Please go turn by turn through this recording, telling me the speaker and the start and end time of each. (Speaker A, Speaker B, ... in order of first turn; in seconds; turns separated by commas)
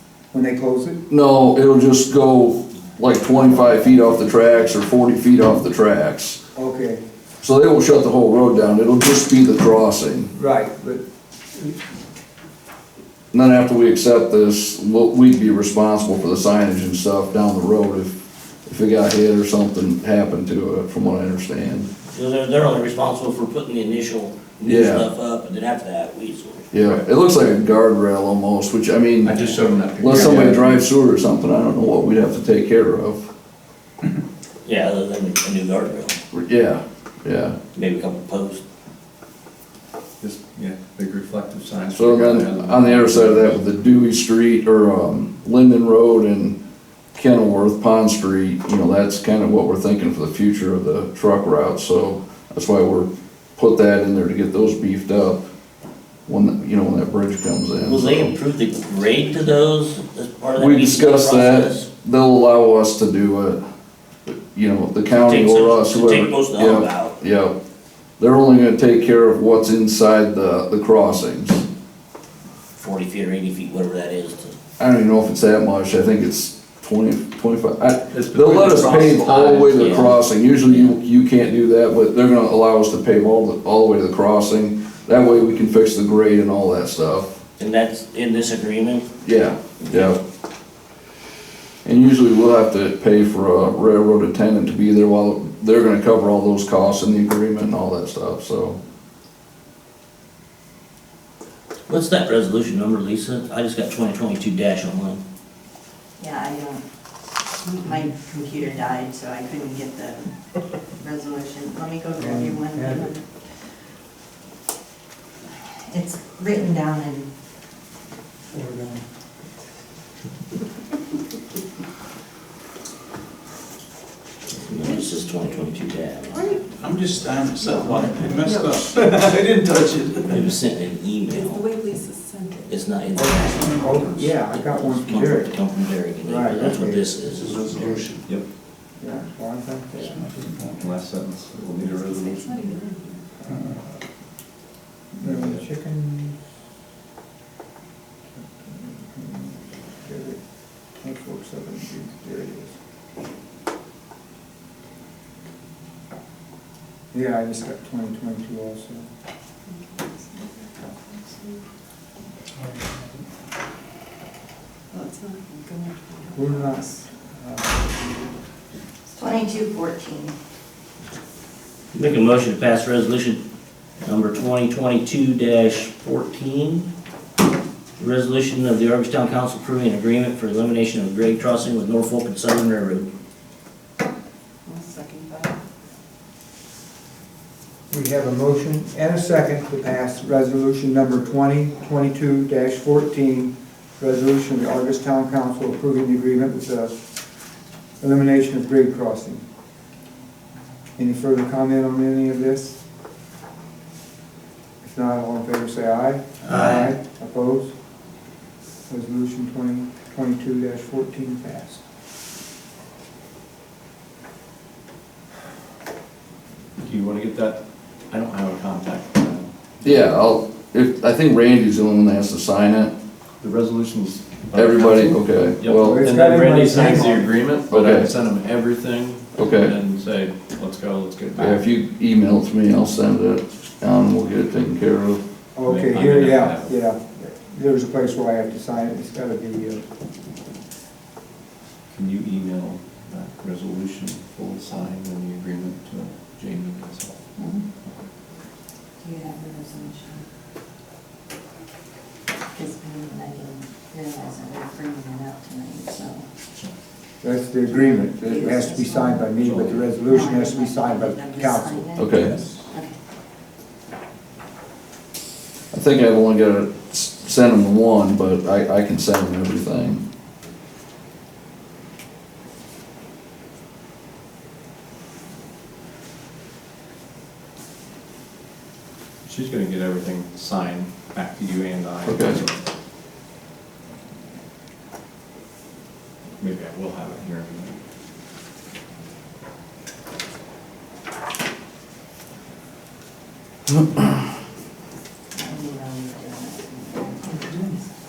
Speaker A: 0.3-1.0, Speaker B: 1.1-6.4, Speaker A: 6.5-7.0, Speaker B: 7.4-10.3, Speaker A: 10.3-11.0, Speaker B: 13.3-21.9, Speaker C: 22.1-26.7, Speaker B: 24.6-25.1, Speaker B: 26.7-29.4, Speaker D: 29.2-30.8, Speaker C: 29.4-29.6, Speaker B: 30.0-33.3, Speaker C: 34.6-36.2, Speaker B: 36.3-37.6, Speaker C: 37.7-38.6, Speaker D: 40.2-43.6, Speaker B: 41.9-46.6, Speaker B: 47.1-55.4, Speaker B: 56.3-58.4, Speaker C: 57.8-61.9, Speaker B: 60.6-63.6, Speaker B: 64.3-67.5, Speaker C: 65.3-67.2, Speaker B: 68.2-71.6, Speaker C: 72.8-74.6, Speaker B: 74.8-87.4, Speaker D: 78.1-80.1, Speaker C: 79.0-81.0, Speaker C: 87.6-89.1, Speaker B: 89.2-90.2, Speaker C: 89.8-90.1, Speaker B: 91.8-98.8, Speaker C: 101.9-105.2, Speaker E: 106.2-106.8, Speaker E: 107.7-110.3, Speaker E: 111.0-113.2, Speaker A: 112.2-113.1, Speaker E: 115.8-117.3, Speaker A: 118.5-119.1, Speaker C: 124.6-126.6, Speaker F: 126.3-126.7, Speaker G: 126.7-130.5, Speaker F: 127.6-129.2, Speaker C: 130.3-131.7, Speaker F: 131.3-132.8, Speaker C: 132.7-138.2, Speaker A: 133.2-135.5, Speaker A: 136.2-137.1, Speaker G: 137.4-138.2, Speaker A: 139.0-140.5, Speaker G: 140.1-140.9, Speaker D: 140.8-142.8, Speaker F: 142.0-143.2, Speaker A: 143.4-143.8, Speaker A: 145.1-146.4, Speaker D: 145.3-145.5, Speaker A: 148.3-152.8, Speaker A: 157.1-159.1, Speaker F: 159.7-161.6, Speaker A: 162.6-163.0, Speaker F: 164.9-166.9, Speaker A: 166.3-168.3, Speaker E: 169.1-170.3, Speaker C: 171.9-173.4, Speaker C: 174.0-176.9, Speaker C: 178.0-183.1, Speaker F: 184.7-185.6, Speaker A: 187.9-196.9, Speaker A: 198.0-199.4, Speaker A: 201.0-202.8, Speaker A: 204.8-207.7, Speaker A: 208.9-211.8, Speaker D: 216.8-220.0, Speaker B: 219.8-222.9, Speaker D: 223.4-231.6, Speaker B: 224.5-226.0, Speaker A: 225.8-227.3, Speaker B: 227.7-228.1, Speaker B: 229.3-229.8, Speaker B: 231.4-235.2, Speaker A: 235.6-239.8, Speaker D: 235.7-236.8, Speaker D: 241.9-247.2, Speaker E: 247.4-247.6, Speaker E: 249.0-250.2, Speaker E: 252.5-256.3, Speaker A: 257.2-261.9, Speaker E: 257.7-259.3, Speaker D: 259.4-259.9, Speaker E: 260.1-262.9, Speaker B: 261.9-262.3, Speaker D: 262.2-262.6, Speaker B: 265.7-270.0, Speaker D: 279.2-282.5, Speaker B: 282.0-282.4, Speaker D: 286.4-287.8, Speaker E: 295.3-297.9